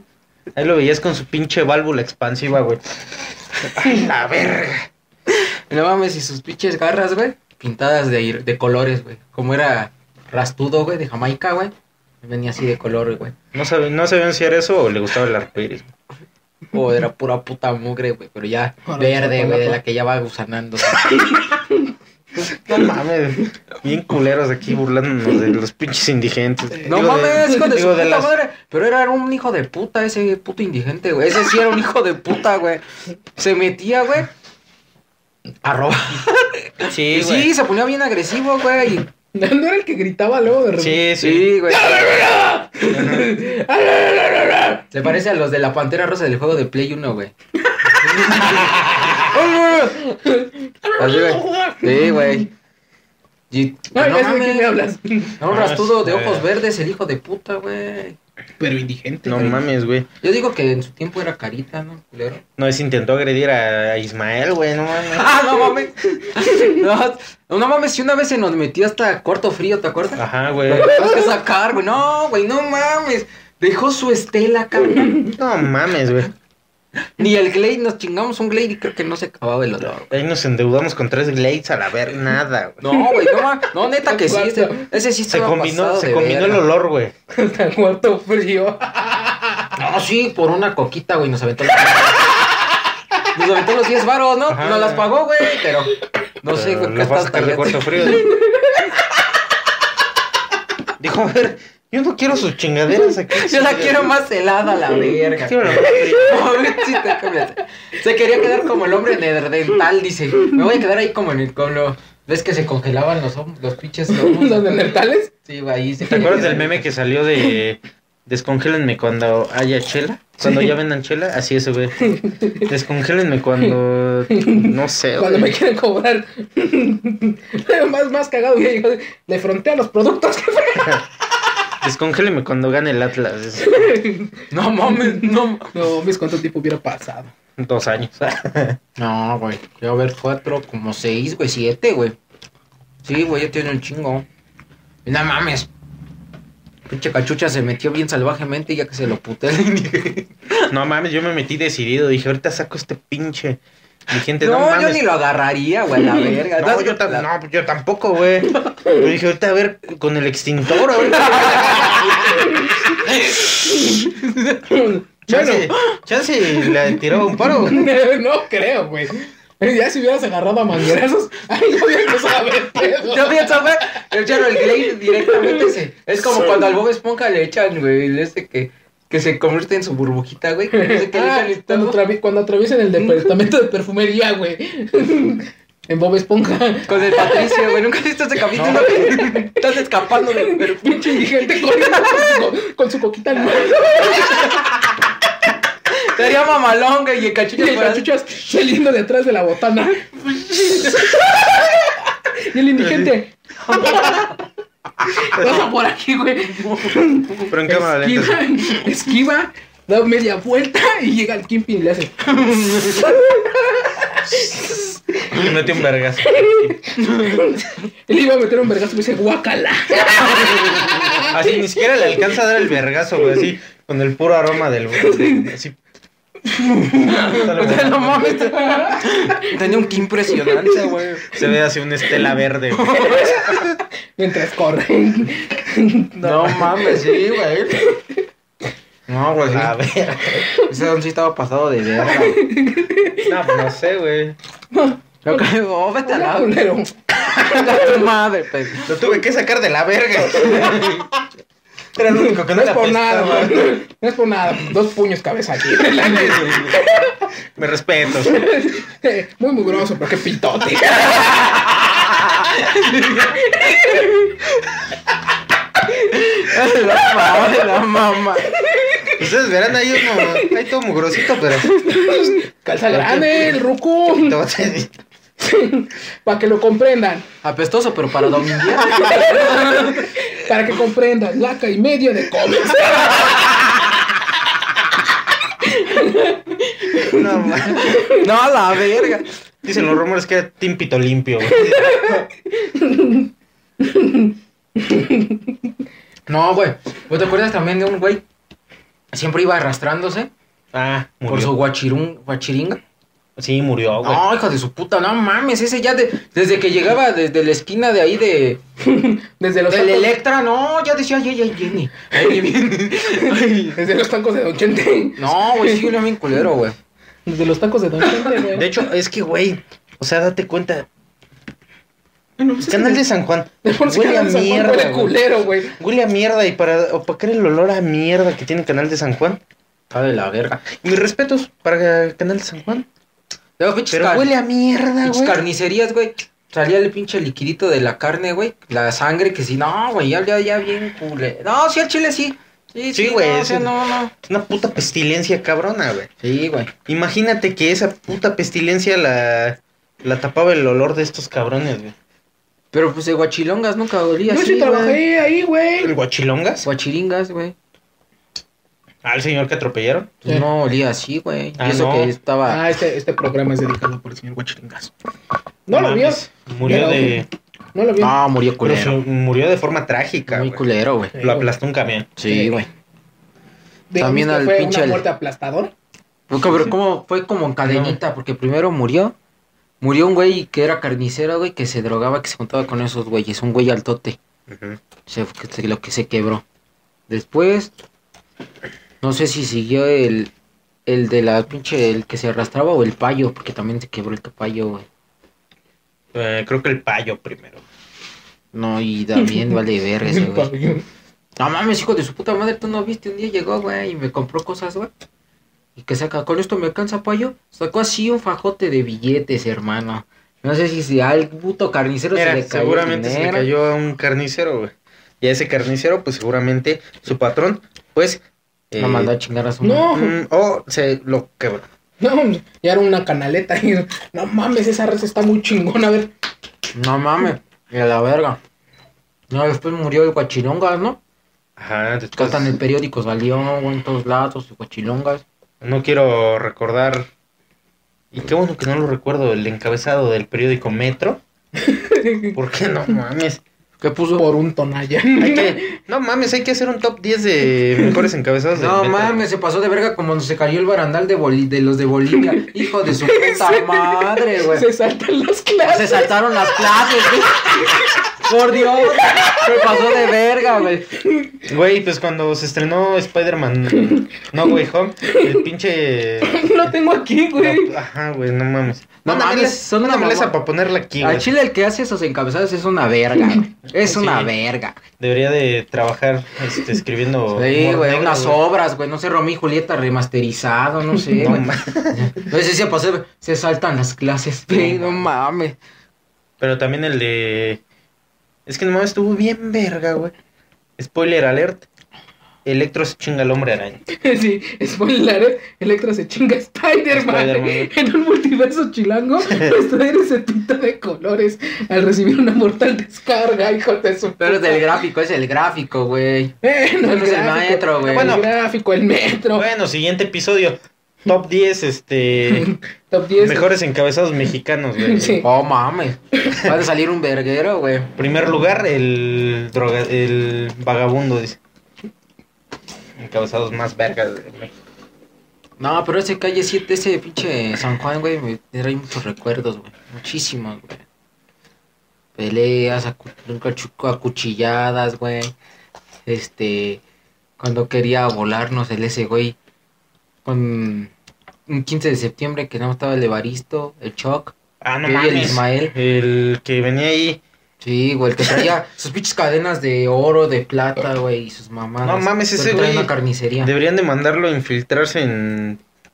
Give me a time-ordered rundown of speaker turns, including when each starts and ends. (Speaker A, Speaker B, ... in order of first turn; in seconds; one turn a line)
Speaker A: 0.6-4.9
Speaker B: 5.3-13.3
Speaker A: 13.5-15.9
Speaker B: 16.7-21.1
Speaker C: 18.8-19.8
Speaker A: 22.4-28.3
Speaker C: 26.7-27.7
Speaker B: 26.8-32.8
Speaker B: 33.4-34.3
Speaker B: 35.6-39.1
Speaker A: 36.9-37.5
Speaker C: 39.3-41.0
Speaker A: 40.8-41.5
Speaker B: 41.2-42.1
Speaker C: 41.7-44.9
Speaker A: 42.9-43.4
Speaker B: 44.9-47.3
Speaker C: 47.7-52.5
Speaker B: 47.9-50.0
Speaker B: 51.0-52.5
Speaker B: 53.5-54.7
Speaker C: 53.9-55.4
Speaker B: 55.4-58.2
Speaker A: 55.5-56.5
Speaker C: 58.6-59.6
Speaker A: 59.2-60.1
Speaker B: 60.2-62.4
Speaker A: 62.6-65.3
Speaker B: 65.0-75.2
Speaker A: 70.2-71.1
Speaker A: 75.3-76.3
Speaker B: 77.0-80.2
Speaker A: 80.0-82.8
Speaker B: 82.8-86.6
Speaker C: 82.9-83.5
Speaker C: 84.0-84.9
Speaker A: 85.3-87.1
Speaker C: 87.3-89.8
Speaker B: 89.8-92.4
Speaker B: 93.3-98.2
Speaker A: 94.5-95.1
Speaker A: 96.5-98.3
Speaker C: 98.1-98.9
Speaker A: 101.0-104.2
Speaker B: 103.2-114.9
Speaker A: 105.4-106.5
Speaker C: 106.0-107.2
Speaker C: 114.1-115.3
Speaker B: 115.5-116.8
Speaker C: 116.1-116.4
Speaker A: 116.1-125.6
Speaker C: 120.4-120.7
Speaker C: 122.0-122.7
Speaker C: 124.3-131.1
Speaker A: 131.8-134.0
Speaker C: 133.6-137.3
Speaker B: 134.5-135.8
Speaker A: 137.6-138.8
Speaker B: 139.0-142.2
Speaker B: 143.0-144.3
Speaker B: 145.1-145.7
Speaker B: 146.9-150.7
Speaker A: 150.7-155.0
Speaker B: 154.4-157.3
Speaker A: 156.6-162.1
Speaker C: 158.7-159.0
Speaker C: 161.2-166.0
Speaker B: 161.6-162.5
Speaker B: 163.0-164.6
Speaker A: 165.3-167.9
Speaker C: 166.7-175.7
Speaker B: 172.8-182.0
Speaker C: 180.7-187.8
Speaker B: 183.0-183.3
Speaker B: 186.9-192.4
Speaker C: 188.5-189.6
Speaker C: 190.2-194.8
Speaker B: 194.0-194.7
Speaker B: 195.9-198.1
Speaker C: 197.6-204.3
Speaker A: 202.8-203.1
Speaker B: 203.6-204.3
Speaker C: 205.0-215.5
Speaker A: 205.4-205.7
Speaker B: 206.6-207.0
Speaker A: 207.4-208.4
Speaker B: 212.3-213.2
Speaker A: 214.3-214.8
Speaker A: 215.3-216.8
Speaker C: 216.2-221.4
Speaker A: 221.2-225.8
Speaker C: 225.0-225.5
Speaker C: 226.5-227.6
Speaker A: 227.2-228.4
Speaker B: 227.3-231.4
Speaker C: 228.2-230.8
Speaker A: 231.3-233.7
Speaker B: 232.7-233.4
Speaker C: 233.0-233.6
Speaker C: 234.2-238.2
Speaker B: 236.2-237.9
Speaker B: 239.1-239.8
Speaker A: 239.4-240.4
Speaker C: 240.4-240.7
Speaker B: 240.7-242.4
Speaker C: 242.0-243.4
Speaker A: 243.2-244.4
Speaker C: 244.7-245.5
Speaker B: 245.2-246.6
Speaker C: 246.0-248.1
Speaker B: 247.2-249.0
Speaker A: 248.8-251.1
Speaker C: 250.3-251.0
Speaker A: 251.9-253.8
Speaker C: 252.2-257.3
Speaker A: 256.0-256.8
Speaker A: 257.6-258.4
Speaker C: 258.2-264.4
Speaker B: 261.2-262.0
Speaker B: 262.5-264.1
Speaker B: 266.1-268.6
Speaker C: 266.9-267.6
Speaker C: 268.5-269.2
Speaker A: 269.2-271.8
Speaker C: 270.1-270.5
Speaker C: 271.6-274.4
Speaker A: 272.9-273.6
Speaker A: 274.1-274.9
Speaker C: 275.4-277.3
Speaker B: 277.4-280.1
Speaker C: 278.4-283.6
Speaker C: 285.6-288.3
Speaker A: 287.1-288.1
Speaker B: 288.1-289.3
Speaker A: 289.6-292.2
Speaker C: 291.5-293.3
Speaker C: 293.8-295.5
Speaker B: 296.3-298.2
Speaker B: 299.1-300.3
Speaker A: 300.7-301.5
Speaker B: 301.3-302.8
Speaker A: 303.4-304.2
Speaker B: 304.0-308.6
Speaker C: 308.8-310.1
Speaker B: 309.7-313.8
Speaker C: 313.4-315.9
Speaker B: 315.2-316.8
Speaker C: 317.3-318.7
Speaker A: 318.5-320.9
Speaker C: 322.4-323.0
Speaker A: 322.6-325.2
Speaker C: 323.6-325.8
Speaker A: 325.8-329.4
Speaker B: 329.9-330.6
Speaker A: 330.7-332.9
Speaker B: 333.6-334.3
Speaker A: 333.9-335.4
Speaker B: 335.0-344.1
Speaker A: 342.9-343.7
Speaker A: 344.3-346.1
Speaker B: 346.2-346.7
Speaker A: 346.9-351.9
Speaker B: 352.7-355.0
Speaker C: 354.3-355.9
Speaker A: 355.8-356.7
Speaker B: 356.6-357.6
Speaker A: 359.0-360.2
Speaker B: 360.2-362.6
Speaker A: 361.6-362.1
Speaker C: 362.5-364.9
Speaker C: 365.7-368.2
Speaker A: 365.7-367.3
Speaker B: 368.0-369.0
Speaker A: 368.6-370.6
Speaker B: 370.3-371.1
Speaker C: 371.1-371.5
Speaker A: 371.2-372.1
Speaker B: 372.2-372.7
Speaker C: 372.2-372.7
Speaker C: 373.9-375.7
Speaker B: 374.0-375.1
Speaker B: 376.3-379.1
Speaker A: 376.4-376.8
Speaker A: 377.6-378.0
Speaker B: 379.8-384.2
Speaker A: 384.5-384.8
Speaker B: 385.1-386.4
Speaker B: 387.1-387.7
Speaker B: 389.0-390.3
Speaker B: 390.9-394.9
Speaker A: 396.1-397.6
Speaker B: 398.5-400.5
Speaker C: 399.2-400.9
Speaker B: 401.4-404.9
Speaker B: 405.8-413.5
Speaker A: 412.1-419.1
Speaker B: 418.8-419.9
Speaker C: 419.6-420.2
Speaker A: 419.9-421.6
Speaker C: 422.0-426.1
Speaker B: 426.7-428.4
Speaker B: 429.3-431.0
Speaker A: 431.6-432.6
Speaker B: 432.2-435.2
Speaker A: 435.6-437.1
Speaker A: 438.1-441.2
Speaker C: 441.6-442.4
Speaker A: 442.3-443.4
Speaker B: 443.8-444.3
Speaker C: 444.1-445.8
Speaker A: 445.2-449.2
Speaker B: 448.5-454.7
Speaker C: 452.3-460.1
Speaker B: 455.6-460.9
Speaker C: 461.0-461.4
Speaker A: 461.5-466.7
Speaker C: 465.1-465.4
Speaker C: 466.2-467.7
Speaker A: 467.4-471.3
Speaker B: 469.0-470.4
Speaker B: 471.0-474.8
Speaker A: 473.8-474.3
Speaker A: 475.0-478.4
Speaker B: 477.3-485.6
Speaker A: 481.1-482.1
Speaker A: 484.5-485.1
Speaker A: 486.4-487.6
Speaker A: 488.5-490.1
Speaker A: 490.8-491.7
Speaker A: 492.4-493.8
Speaker C: 493.9-504.7
Speaker A: 496.9-497.7
Speaker A: 499.2-499.5
Speaker B: 504.2-508.2
Speaker C: 506.4-509.5
Speaker A: 507.9-508.3
Speaker A: 509.4-512.5
Speaker C: 512.4-513.5
Speaker A: 513.2-515.2
Speaker C: 514.8-515.3
Speaker B: 515.1-517.9
Speaker A: 518.0-521.4
Speaker A: 523.0-524.5
Speaker B: 525.6-530.8
Speaker B: 532.2-535.3
Speaker B: 536.1-536.8
Speaker B: 537.4-539.4
Speaker B: 540.2-540.9
Speaker B: 541.5-545.8
Speaker A: 544.6-547.2
Speaker B: 547.6-553.5
Speaker A: 551.8-555.6